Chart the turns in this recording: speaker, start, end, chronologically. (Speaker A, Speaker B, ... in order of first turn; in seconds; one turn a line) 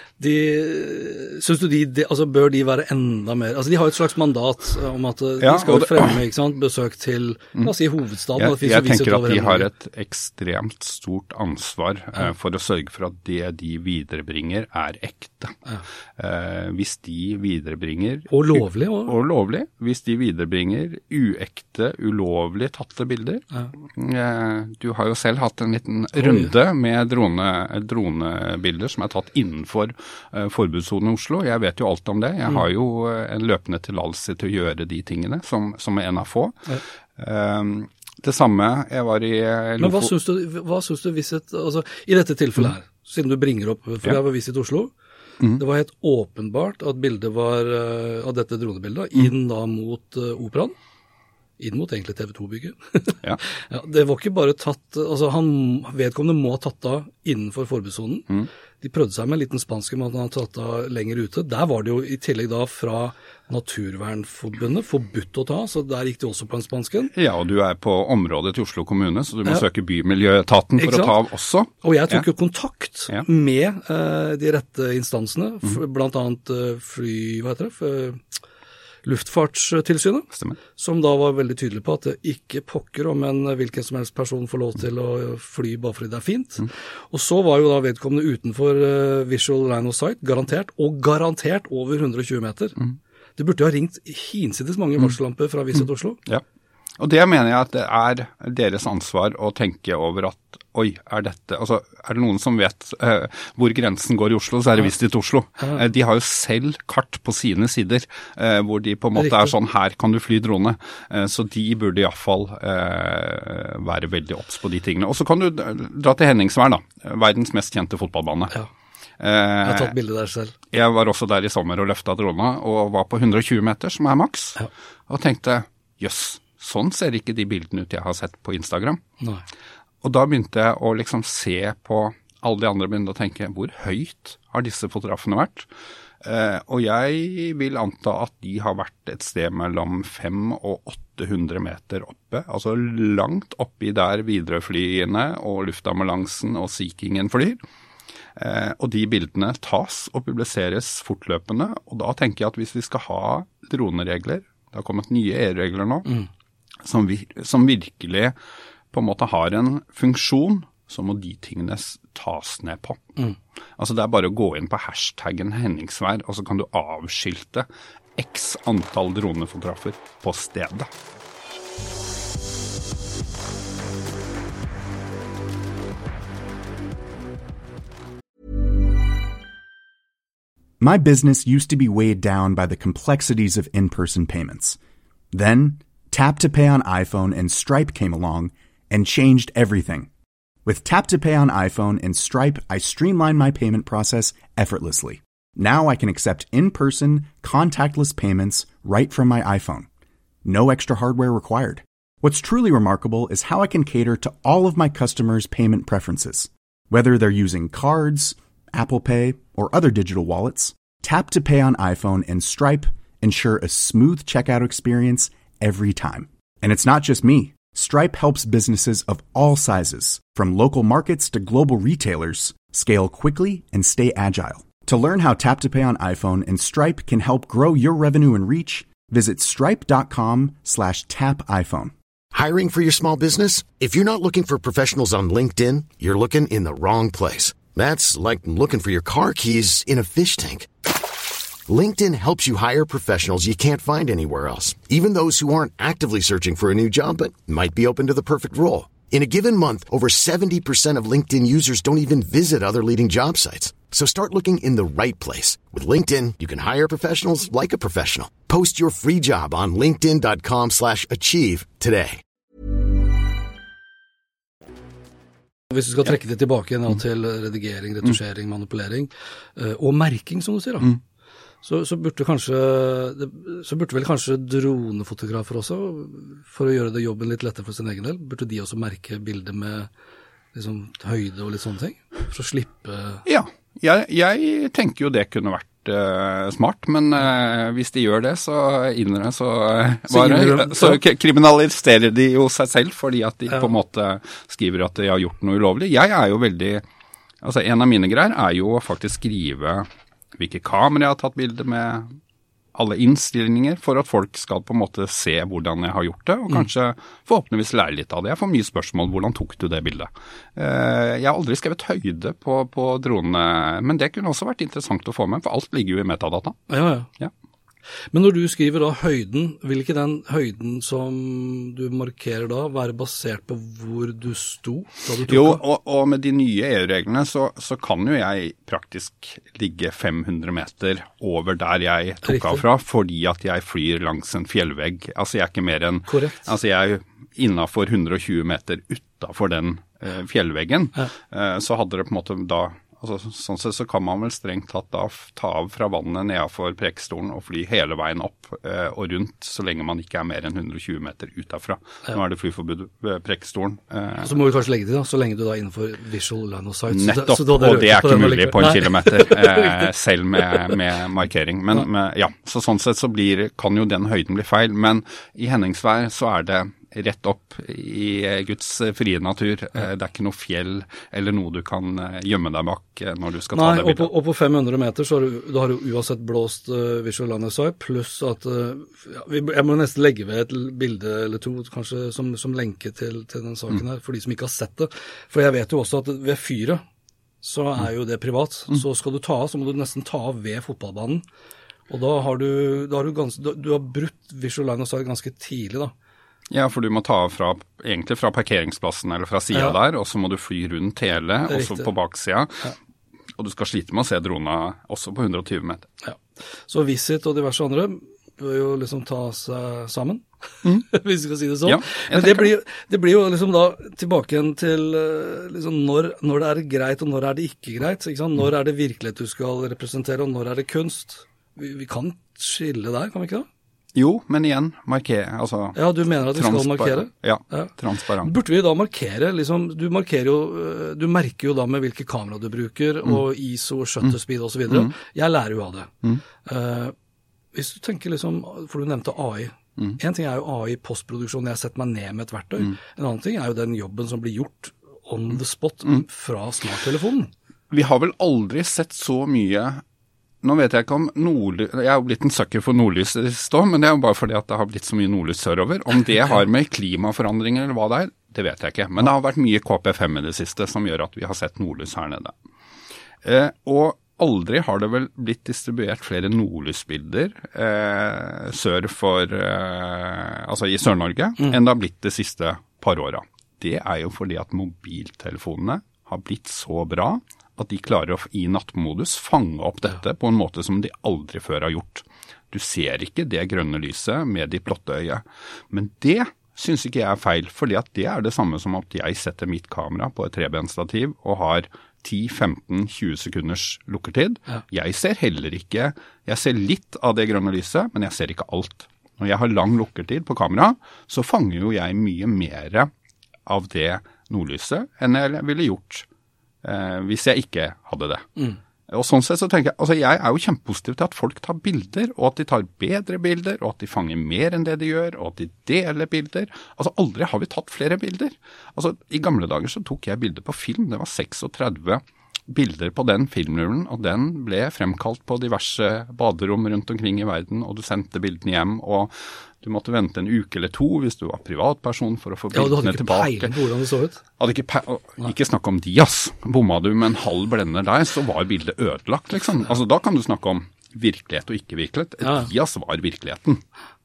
Speaker A: 0.2-9.7
Speaker B: 5.4-6.2
Speaker B: 8.3-15.6
Speaker B: 16.2-36.6
Speaker A: 18.3-19.1
Speaker A: 26.1-26.5
Speaker B: 37.2-40.1
Speaker A: 39.8-44.9
Speaker A: 45.6-50.8
Speaker A: 51.6-58.3
Speaker A: 58.8-67.1
Speaker B: 67.1-72.2
Speaker A: 70.8-71.2
Speaker A: 71.8-78.4
Speaker A: 79.0-92.8
Speaker B: 80.3-80.6
Speaker A: 93.4-96.2
Speaker B: 97.0-118.5
Speaker A: 109.2-109.5
Speaker B: 119.2-119.9
Speaker A: 119.6-120.5
Speaker B: 120.7-129.0
Speaker B: 130.0-135.7
Speaker B: 136.2-147.6
Speaker B: 148.4-156.1
Speaker B: 156.8-158.3
Speaker B: 158.9-163.0
Speaker B: 163.8-170.9
Speaker C: 180.8-184.8
Speaker C: 185.3-190.1
Speaker C: 190.6-199.9
Speaker C: 200.4-231.9
Speaker D: 232.3-240.9
Speaker D: 241.7-262.2
Speaker A: 265.7-270.9
Speaker A: 271.6-279.9
Speaker A: 280.5-283.2
Speaker B: 283.2-296.8
Speaker A: 290.1-291.0
Speaker B: 297.4-302.2
Speaker B: 302.7-316.6
Speaker A: 316.7-317.1
Speaker A: 318.1-325.6
Speaker B: 325.3-354.3
Speaker A: 332.2-332.6
Speaker A: 336.1-336.5
Speaker A: 354.2-359.9
Speaker B: 356.9-374.1
Speaker A: 373.5-386.8
Speaker A: 387.4-391.2
Speaker A: 391.9-395.9
Speaker B: 396.5-402.7
Speaker A: 399.5-399.8
Speaker A: 401.5-401.9
Speaker B: 403.4-405.9
Speaker A: 406.0-423.5
Speaker B: 411.6-412.5
Speaker B: 423.9-428.3
Speaker A: 425.7-436.9
Speaker A: 437.5-447.3
Speaker B: 447.7-449.8
Speaker B: 450.4-462.3
Speaker B: 463.2-502.9
Speaker B: 503.4-506.1
Speaker B: 506.6-508.3
Speaker B: 508.9-533.5
Speaker A: 532.5-534.2
Speaker B: 534.4-543.6
Speaker A: 542.2-542.5